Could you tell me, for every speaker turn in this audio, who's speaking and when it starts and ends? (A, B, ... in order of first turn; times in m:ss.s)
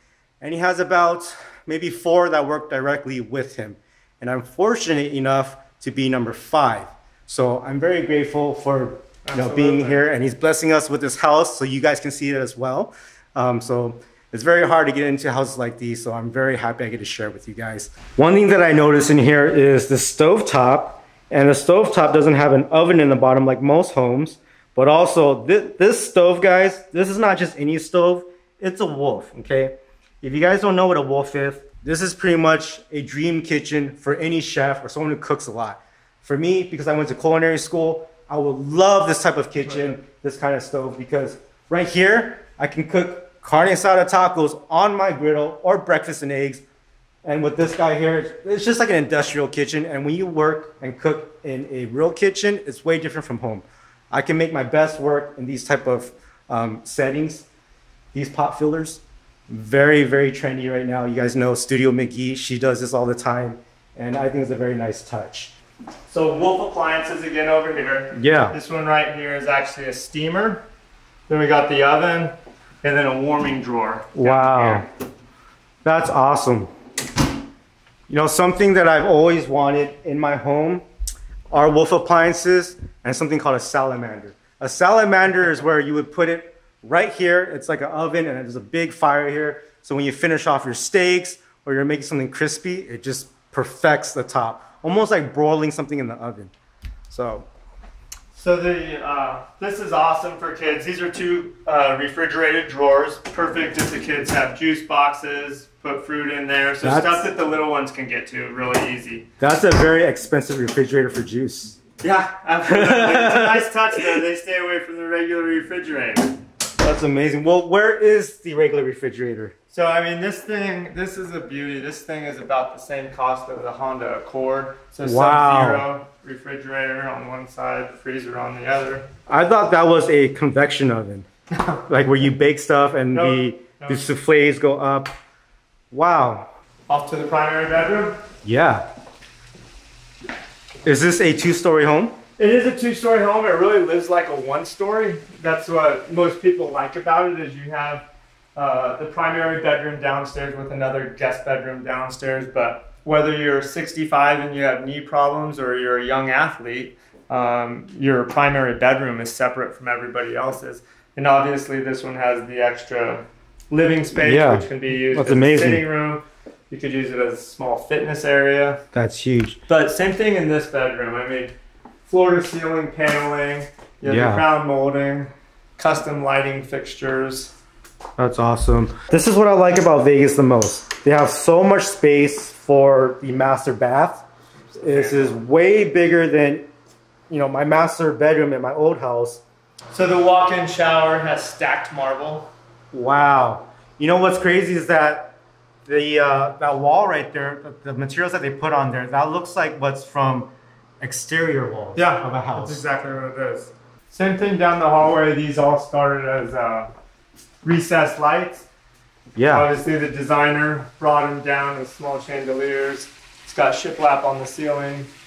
0:00.4-0:46.6 A
0:09.2-0:10.0 B
0:39.6-0:39.9 B
0:47.2-0:57.4 A
0:58.1-1:05.5 A
1:06.1-1:10.6 B
1:08.1-1:08.6 A
1:11.3-1:14.8 B
1:14.1-1:14.9 A
1:15.8-1:16.7 A
1:18.1-1:20.8 A
1:21.5-1:36.5 A
1:37.1-1:37.5 A
1:38.3-1:49.3 B
1:46.8-1:47.3 A
1:49.4-1:51.8 A
1:52.0-1:56.3 B
1:52.7-1:54.2 A
1:56.8-1:59.5 A
1:59.7-2:09.1 B
2:05.0-2:05.9 A
2:09.3-2:11.3 A
2:11.9-2:15.1 A
2:13.1-2:14.0 B
2:15.9-2:16.5 A
2:16.9-2:18.2 B
2:18.4-2:18.9 A
2:20.8-2:22.2 A
2:22.4-2:48.8 B
2:44.2-2:45.8 A
2:48.9-2:49.6 A
2:49.7-2:51.5 B
2:52.1-2:57.5 B
2:54.0-2:54.4 A
2:58.2-3:06.7 A
3:04.7-3:05.3 B
3:07.3-3:09.4 A
3:09.9-3:12.5 B
3:12.9-3:22.8 A
3:22.0-3:26.9 B
3:27.6-3:28.6 B
3:29.3-3:29.7 A
3:29.5-3:35.1 B